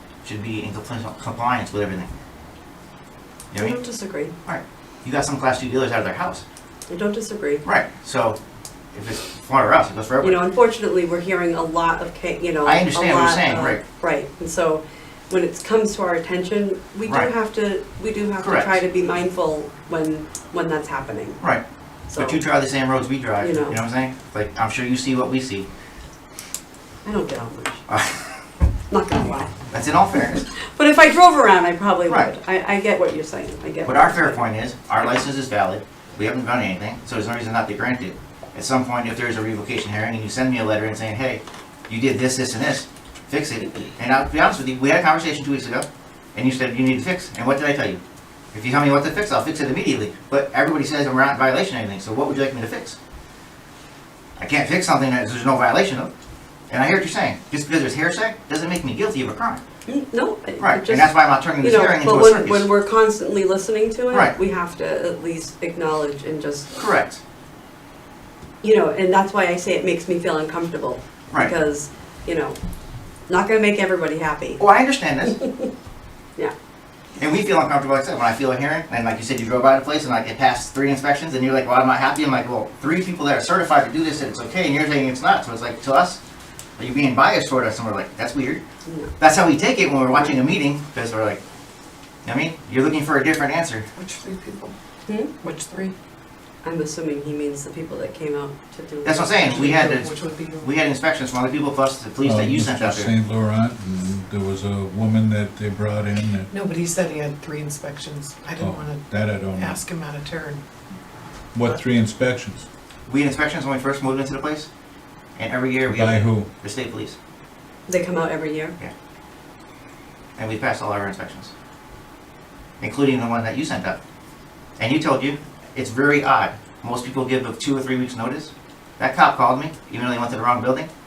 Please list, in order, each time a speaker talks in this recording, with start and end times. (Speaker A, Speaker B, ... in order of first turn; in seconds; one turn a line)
Speaker A: 0.2-2.2
Speaker A: 3.5-3.8
Speaker B: 3.6-4.3
Speaker A: 4.4-6.4
Speaker B: 6.9-7.6
Speaker A: 7.6-8.4
Speaker A: 8.9-10.4
Speaker B: 10.2-21.4
Speaker A: 12.7-13.8
Speaker A: 18.4-18.8
Speaker B: 22.1-22.4
Speaker A: 22.2-25.7
Speaker B: 23.4-23.8
Speaker B: 27.1-27.8
Speaker A: 27.9-28.3
Speaker B: 28.9-29.5
Speaker A: 29.7-30.4
Speaker B: 30.7-34.4
Speaker A: 33.8-48.0
Speaker A: 48.5-53.0
Speaker A: 54.4-56.1
Speaker A: 56.7-59.6
Speaker B: 59.9-66.7
Speaker A: 60.6-62.7
Speaker A: 64.1-64.4
Speaker A: 66.8-67.2
Speaker B: 68.6-72.6
Speaker B: 73.3-74.6
Speaker A: 74.6-75.4
Speaker A: 77.2-86.2
Speaker A: 86.8-88.6
Speaker B: 88.9-89.1
Speaker A: 89.2-91.4
Speaker A: 92.2-93.9
Speaker C: 94.0-94.7
Speaker B: 95.1-95.3
Speaker C: 95.4-95.9
Speaker B: 96.6-99.5
Speaker A: 99.0-103.1
Speaker C: 99.4-100.7
Speaker D: 102.2-106.5
Speaker C: 106.5-109.0
Speaker D: 108.6-109.8
Speaker C: 109.5-110.6
Speaker D: 111.5-112.7
Speaker A: 113.1-114.7
Speaker A: 115.4-117.2
Speaker D: 115.9-116.5
Speaker B: 117.9-118.8
Speaker A: 120.4-121.5
Speaker A: 122.8-124.0
Speaker A: 124.8-130.9